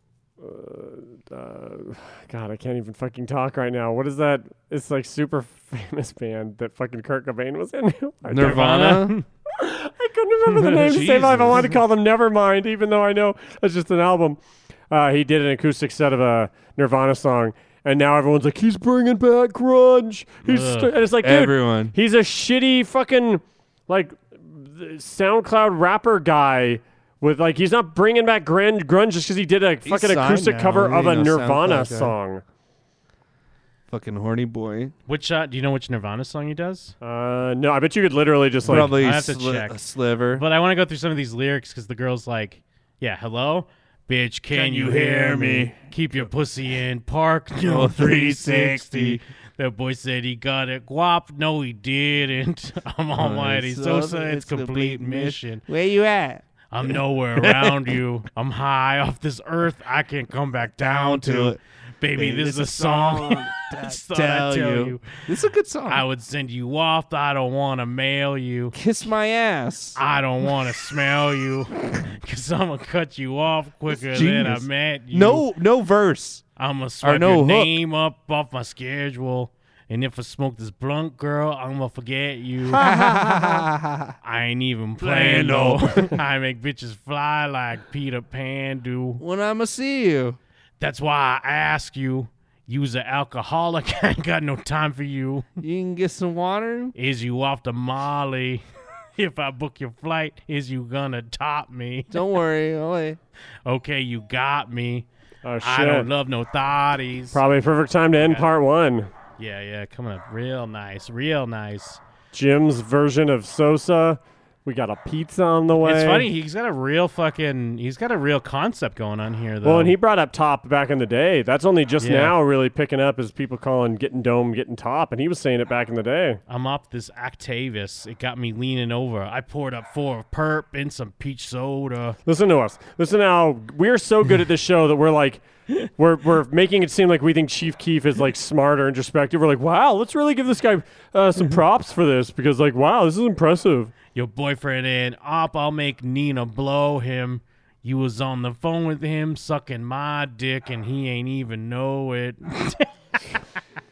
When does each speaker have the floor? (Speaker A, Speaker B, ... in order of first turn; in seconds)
Speaker A: 0.4-9.0, 9.5-14.4, 14.9-32.4, 37.0-38.9, 82.7-83.6, 105.4-106.1, 107.3-109.1, 112.3-116.3, 119.6-126.4, 132.2-143.9
Speaker B: 8.2-9.2, 10.6-11.7, 21.2-21.9, 29.8-32.1, 33.9-34.9, 38.6-40.4, 44.5-45.8, 47.6-49.2, 53.1-58.0, 60.8-61.6, 62.1-66.0, 68.7-70.0, 73.9-76.4, 77.0-77.8, 82.7-84.1, 85.0-86.2, 89.2-90.4, 95.6-96.9, 102.1-103.2
Speaker C: 8.4-9.2, 20.4-20.9, 35.1-36.9, 38.6-39.8, 40.3-55.6, 56.7-65.2, 65.8-68.8, 70.0-75.5, 76.6-82.8, 84.2-89.2, 90.8-95.5, 96.9-98.6, 99.2-102.2, 103.7-105.0, 105.6-107.4, 108.2-108.5, 109.4-112.0, 115.8-119.9, 122.0-122.3, 126.5-132.2, 144.1-153.4